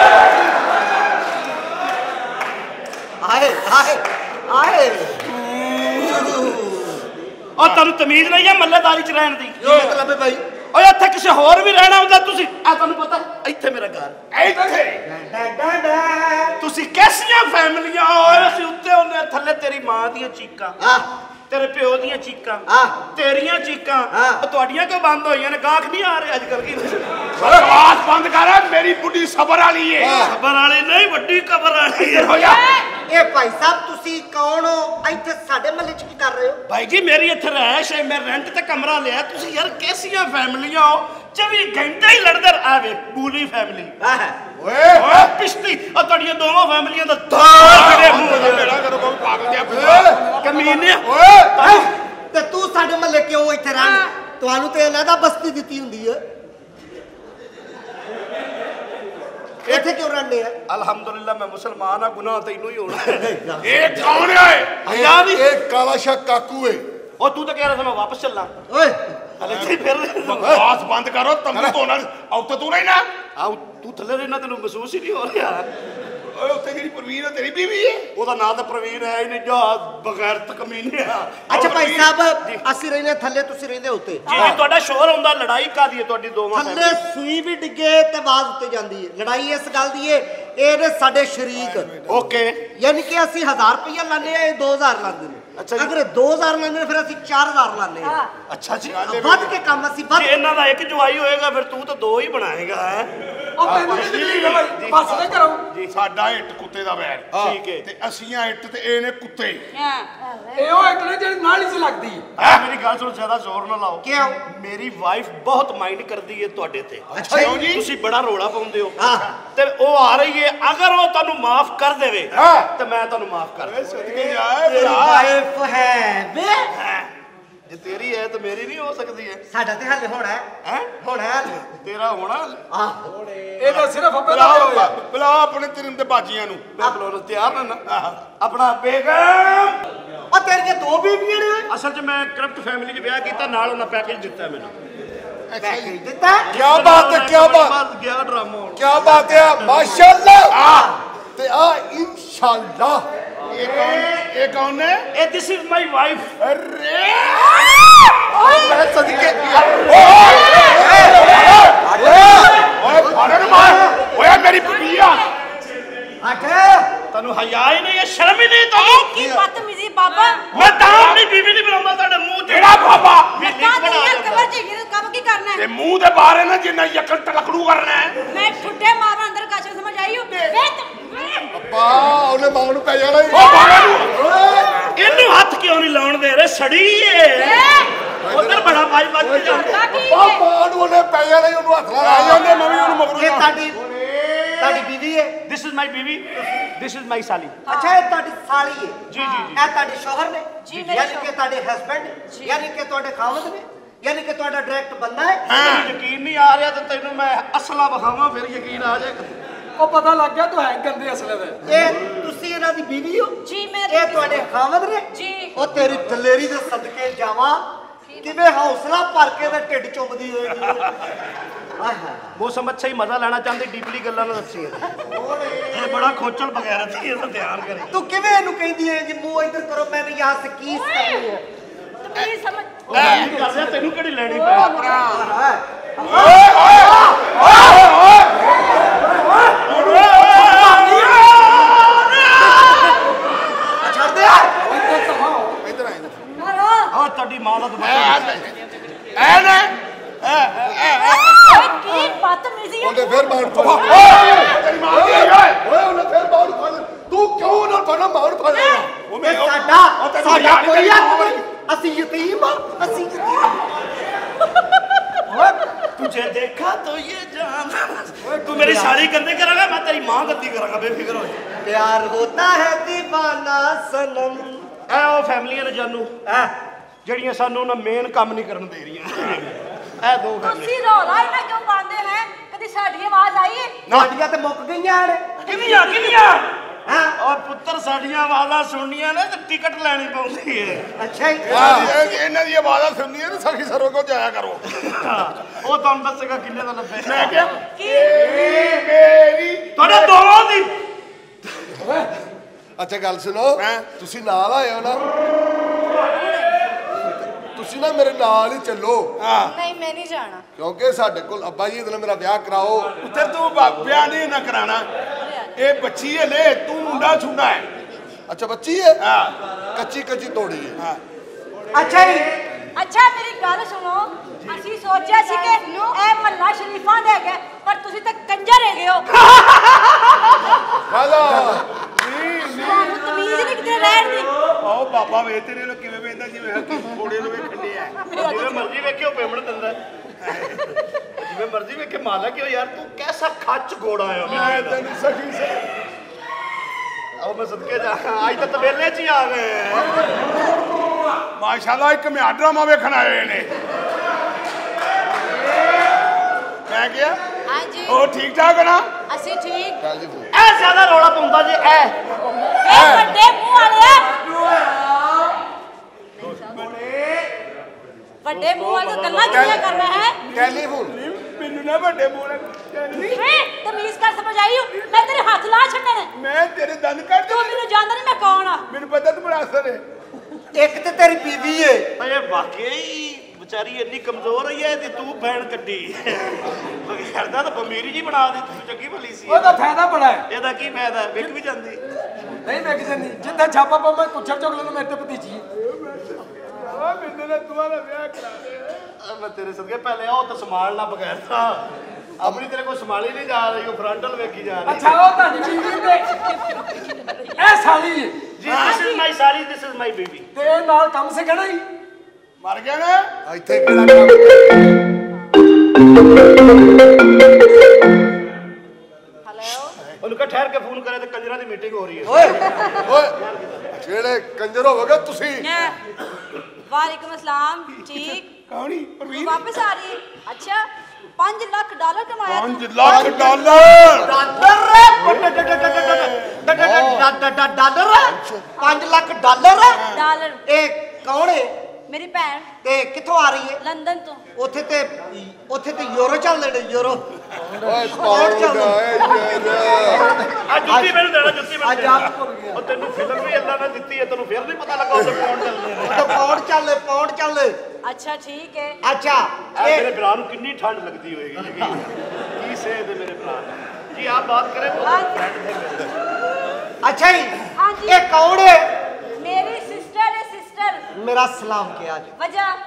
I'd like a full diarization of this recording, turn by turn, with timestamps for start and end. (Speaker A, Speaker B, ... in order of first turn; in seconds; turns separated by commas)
Speaker A: 3.2-5.2, Speaker B: 5.4-6.4, Speaker C: 7.6-10.0, Speaker A: 9.6-10.4, Speaker C: 10.7-14.2, Speaker B: 14.3-15.0, Speaker A: 15.1-16.6, Speaker C: 16.6-20.8, Speaker A: 20.8-21.1, Speaker C: 21.5-27.6, Speaker A: 22.7-23.0, Speaker A: 24.1-24.4, Speaker B: 27.4-30.3, Speaker D: 30.0-30.3, Speaker C: 30.1-32.4, Speaker B: 32.1-32.6, Speaker E: 32.4-32.9, Speaker A: 33.1-36.6, Speaker C: 36.7-44.0, Speaker A: 44.0-44.4, Speaker D: 44.6-45.2, Speaker C: 44.9-48.8, Speaker B: 47.5-50.2, Speaker D: 49.7-50.2, Speaker F: 50.2-50.6, Speaker C: 50.4-51.9, Speaker D: 51.0-51.5, Speaker A: 51.6-56.2, Speaker E: 53.8-54.1, Speaker C: 59.7-60.0, Speaker A: 59.7-60.6, Speaker C: 60.7-63.4, Speaker A: 63.2-64.2, Speaker B: 63.6-64.8, Speaker C: 64.8-65.5, Speaker D: 64.9-66.8, Speaker C: 67.2-68.5, Speaker A: 68.7-69.0, Speaker C: 69.4-70.6, Speaker B: 70.3-73.1, Speaker C: 73.4-75.7, Speaker B: 76.3-78.1, Speaker C: 78.1-81.8, Speaker A: 81.5-84.6, Speaker B: 81.5-82.1, Speaker C: 84.3-87.0, Speaker A: 86.5-91.9, Speaker B: 91.6-92.3, Speaker C: 92.1-92.6, Speaker A: 92.8-98.2, Speaker C: 95.6-96.0, Speaker E: 98.0-98.3, Speaker C: 98.5-99.0, Speaker B: 98.8-99.5, Speaker A: 99.0-100.4, Speaker C: 100.1-103.1, Speaker F: 103.6-105.6, Speaker C: 103.7-106.0, Speaker B: 103.7-105.2, Speaker B: 105.9-109.7, Speaker C: 107.3-107.9, Speaker E: 109.7-110.7, Speaker F: 110.5-112.3, Speaker C: 112.4-117.1, Speaker A: 114.0-114.4, Speaker A: 117.1-117.8, Speaker B: 117.3-117.8, Speaker C: 117.7-123.8, Speaker A: 119.0-119.3, Speaker B: 122.3-122.7, Speaker B: 123.6-125.3, Speaker A: 124.2-126.7, Speaker C: 126.7-127.1, Speaker C: 127.7-129.4, Speaker A: 129.5-130.5, Speaker C: 130.6-130.9, Speaker A: 131.0-131.6, Speaker C: 131.6-132.6, Speaker A: 132.7-133.1, Speaker F: 133.6-134.9, Speaker B: 134.3-136.7, Speaker C: 136.8-137.8, Speaker B: 137.9-138.2, Speaker C: 138.4-139.8, Speaker A: 140.3-141.7, Speaker C: 141.7-144.7, Speaker B: 145.5-146.0, Speaker A: 145.6-146.5, Speaker C: 146.5-149.9, Speaker D: 146.5-147.8, Speaker D: 148.8-150.6, Speaker B: 150.5-150.9, Speaker A: 150.6-151.0, Speaker D: 151.4-153.1, Speaker B: 153.5-155.1, Speaker A: 153.8-154.1, Speaker C: 155.1-156.3, Speaker B: 156.4-165.2, Speaker D: 158.5-159.8, Speaker A: 161.9-164.0, Speaker E: 164.4-165.3, Speaker A: 166.2-166.9, Speaker C: 167.1-169.3, Speaker E: 168.8-170.4, Speaker C: 170.5-174.5, Speaker B: 170.6-171.2, Speaker B: 172.5-173.4, Speaker E: 173.4-175.7, Speaker B: 175.6-178.2, Speaker E: 178.3-181.5, Speaker D: 181.5-183.5, Speaker B: 183.3-184.1, Speaker E: 183.3-184.1, Speaker D: 184.1-184.9, Speaker C: 185.0-187.6, Speaker E: 187.4-187.9, Speaker D: 188.2-192.5, Speaker C: 188.3-189.8, Speaker E: 189.4-190.4, Speaker B: 192.0-193.6, Speaker A: 193.1-193.8, Speaker A: 194.6-195.4, Speaker C: 195.5-197.6, Speaker E: 197.7-198.0, Speaker A: 197.7-199.0, Speaker C: 199.1-199.7, Speaker E: 199.2-199.5, Speaker A: 199.5-205.4, Speaker E: 200.6-201.3, Speaker E: 202.3-202.6, Speaker B: 205.5-205.9, Speaker C: 205.5-209.3, Speaker F: 209.8-211.6, Speaker A: 211.7-213.4, Speaker E: 213.4-214.4, Speaker A: 213.9-217.7, Speaker E: 215.1-215.6, Speaker E: 218.1-218.4, Speaker A: 218.2-220.9, Speaker A: 221.8-222.3, Speaker C: 222.3-224.9, Speaker A: 225.0-226.1, Speaker C: 225.7-227.9, Speaker A: 227.9-231.4, Speaker E: 230.7-231.3, Speaker E: 232.0-233.0, Speaker C: 232.9-234.8, Speaker B: 232.9-233.3, Speaker B: 234.7-235.2, Speaker A: 235.0-237.4, Speaker B: 236.1-238.5, Speaker C: 239.5-241.8, Speaker B: 239.7-241.8, Speaker F: 240.6-241.1, Speaker C: 242.5-242.8, Speaker A: 243.8-244.6, Speaker F: 244.7-245.6, Speaker B: 245.6-246.2, Speaker E: 246.4-246.9, Speaker C: 246.9-248.4, Speaker B: 247.8-248.5, Speaker B: 249.2-252.0, Speaker E: 251.4-254.5, Speaker D: 252.8-258.9, Speaker B: 253.6-255.6, Speaker B: 259.1-261.4, Speaker A: 259.2-263.8, Speaker C: 266.0-271.4, Speaker A: 268.6-269.0, Speaker A: 271.6-274.7, Speaker C: 274.9-276.1, Speaker A: 276.3-276.5, Speaker C: 277.0-280.8, Speaker E: 280.4-283.8, Speaker C: 283.9-284.1, Speaker A: 283.9-285.2, Speaker C: 285.4-286.5, Speaker A: 286.9-287.1, Speaker C: 287.2-290.9, Speaker A: 291.0-292.0, Speaker B: 291.4-294.6, Speaker D: 291.5-292.0, Speaker C: 294.7-297.5, Speaker B: 297.0-300.1, Speaker E: 297.8-298.2, Speaker C: 299.8-300.7, Speaker D: 302.8-305.1, Speaker B: 303.6-303.9, Speaker E: 306.0-306.6, Speaker D: 307.4-309.1, Speaker B: 309.2-309.5, Speaker E: 309.4-310.4, Speaker D: 310.6-312.9, Speaker B: 313.0-314.9, Speaker E: 315.2-315.5, Speaker B: 315.6-317.7, Speaker D: 318.3-319.0, Speaker B: 319.0-319.3, Speaker D: 319.7-320.8, Speaker A: 321.7-322.4, Speaker E: 322.8-329.1, Speaker C: 329.3-330.1, Speaker D: 330.9-331.6, Speaker E: 332.4-334.3, Speaker B: 334.6-338.0, Speaker E: 338.1-338.7, Speaker C: 338.1-339.8, Speaker B: 340.2-340.5, Speaker C: 341.2-344.8, Speaker B: 344.2-345.6, Speaker C: 347.2-350.1, Speaker B: 351.4-353.5, Speaker B: 356.7-357.2, Speaker E: 357.5-358.0, Speaker B: 357.9-358.9, Speaker E: 359.1-359.8, Speaker D: 359.8-360.3, Speaker C: 360.3-362.0, Speaker E: 362.6-364.2, Speaker D: 362.7-363.1, Speaker E: 368.2-370.2, Speaker C: 368.3-369.7, Speaker D: 369.3-369.7, Speaker D: 370.3-370.9, Speaker B: 370.3-373.2, Speaker E: 373.0-376.1, Speaker B: 376.2-377.6, Speaker E: 377.3-378.6, Speaker B: 378.7-379.8, Speaker A: 380.5-381.9, Speaker C: 382.0-389.6, Speaker F: 389.3-390.2, Speaker C: 390.3-391.8, Speaker F: 392.4-395.4, Speaker B: 396.6-398.8, Speaker C: 399.0-401.7, Speaker C: 402.2-405.0, Speaker F: 404.7-406.3, Speaker F: 407.4-408.2, Speaker C: 408.4-410.3, Speaker B: 408.5-408.8, Speaker E: 408.6-409.0, Speaker F: 410.4-411.7, Speaker B: 412.4-413.1, Speaker D: 413.3-414.7, Speaker E: 419.3-419.8, Speaker C: 420.0-423.7, Speaker D: 422.8-423.1, Speaker D: 423.8-425.5, Speaker E: 425.4-425.8, Speaker E: 426.7-428.3, Speaker B: 428.0-429.5, Speaker E: 429.1-433.4, Speaker B: 432.2-434.2, Speaker A: 432.8-439.8, Speaker B: 435.1-436.4, Speaker D: 436.5-437.1, Speaker D: 438.0-438.5, Speaker B: 439.8-440.0, Speaker E: 439.8-440.4, Speaker A: 440.5-441.6, Speaker E: 441.9-442.5, Speaker A: 442.6-443.6, Speaker E: 443.6-444.2, Speaker A: 444.4-447.1, Speaker D: 447.6-450.1, Speaker A: 447.9-451.0, Speaker E: 449.4-450.0, Speaker C: 450.5-456.3, Speaker A: 451.6-452.5, Speaker A: 455.8-457.6, Speaker E: 457.8-458.8, Speaker A: 458.8-459.9, Speaker C: 459.6-465.9, Speaker E: 464.8-465.3, Speaker A: 466.8-468.7, Speaker E: 467.6-468.1, Speaker E: 469.2-470.8, Speaker A: 470.9-472.1, Speaker E: 472.2-472.6